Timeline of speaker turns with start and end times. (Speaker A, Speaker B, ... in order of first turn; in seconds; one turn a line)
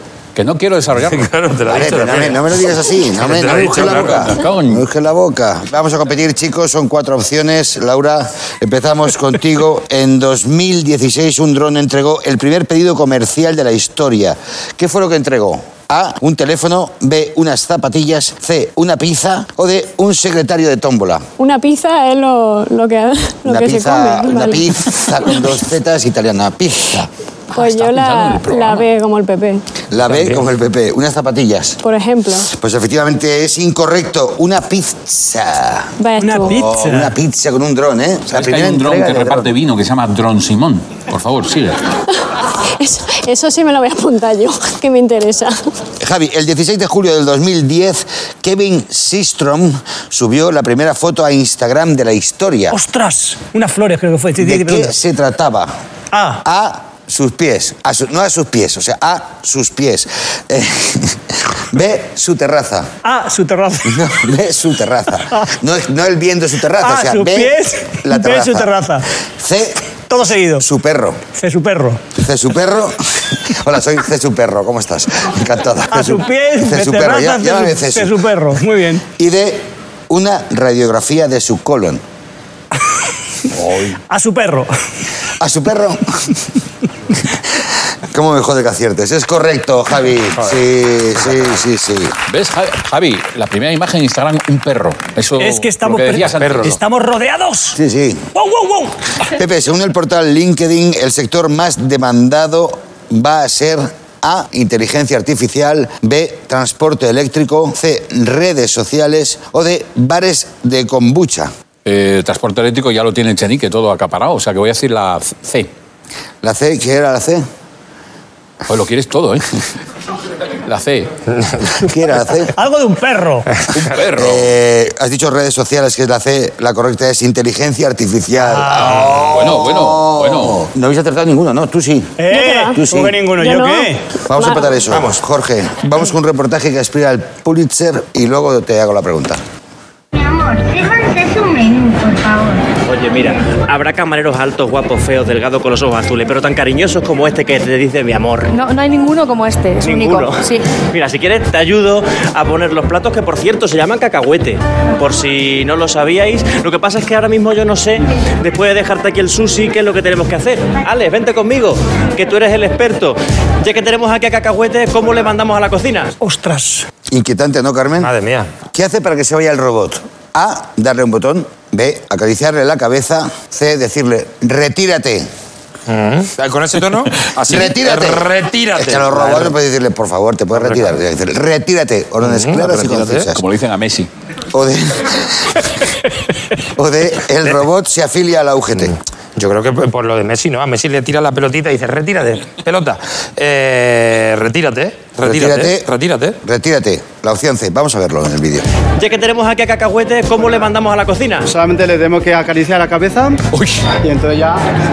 Speaker A: 0.3-1.3
Speaker B: 1.1-2.4
Speaker C: 1.7-21.2
Speaker B: 3.2-4.3
Speaker A: 3.5-4.8
Speaker D: 21.4-24.7
Speaker C: 23.4-27.1
Speaker A: 27.5-28.9
Speaker D: 27.5-29.6
Speaker C: 29.9-31.8
Speaker D: 31.8-32.5
Speaker C: 32.5-39.5
Speaker D: 36.0-36.6
Speaker E: 36.2-37.1
Speaker A: 38.3-41.8
Speaker D: 42.8-45.6
Speaker C: 46.0-52.8
Speaker E: 52.7-54.9
Speaker C: 54.4-55.7
Speaker E: 56.1-56.4
Speaker C: 56.4-62.9
Speaker E: 63.0-64.0
Speaker C: 63.9-68.7
Speaker E: 66.8-69.1
Speaker C: 69.3-69.8
Speaker E: 70.1-70.7
Speaker C: 70.6-71.2
Speaker E: 71.3-72.0
Speaker C: 72.2-78.2
Speaker E: 75.9-79.0
Speaker C: 79.2-82.0
Speaker A: 83.5-84.0
Speaker E: 84.1-84.7
Speaker C: 85.4-86.3
Speaker C: 87.5-92.1
Speaker A: 92.3-96.8
Speaker E: 95.4-97.8
Speaker B: 96.4-96.7
Speaker C: 97.8-98.2
Speaker E: 98.3-99.1
Speaker C: 99.3-111.5
Speaker A: 111.8-115.7
Speaker C: 116.4-117.4
Speaker A: 118.7-119.6
Speaker A: 120.6-121.1
Speaker C: 121.6-122.5
Speaker E: 122.5-123.5
Speaker A: 123.7-124.5
Speaker C: 124.2-132.2
Speaker E: 128.4-129.1
Speaker A: 128.8-130.6
Speaker E: 132.2-134.1
Speaker D: 132.3-132.8
Speaker C: 132.7-133.2
Speaker D: 133.4-134.8
Speaker C: 134.2-139.4
Speaker B: 134.9-135.2
Speaker F: 140.1-142.6
Speaker G: 142.8-148.5
Speaker H: 148.5-150.7
Speaker G: 149.8-166.1
Speaker E: 166.2-166.9
Speaker C: 167.1-168.1
Speaker B: 168.0-168.5
Speaker C: 168.7-175.3
Speaker B: 175.9-179.5
Speaker C: 177.5-183.4
Speaker B: 180.5-180.9
Speaker B: 182.2-183.3
Speaker A: 183.3-184.1
Speaker C: 184.5-185.6
Speaker C: 186.8-188.9
Speaker B: 188.8-196.4
Speaker C: 195.2-195.9
Speaker C: 196.4-198.7
Speaker G: 199.0-201.5
Speaker I: 201.4-203.4
Speaker A: 203.5-203.8
Speaker I: 204.0-204.6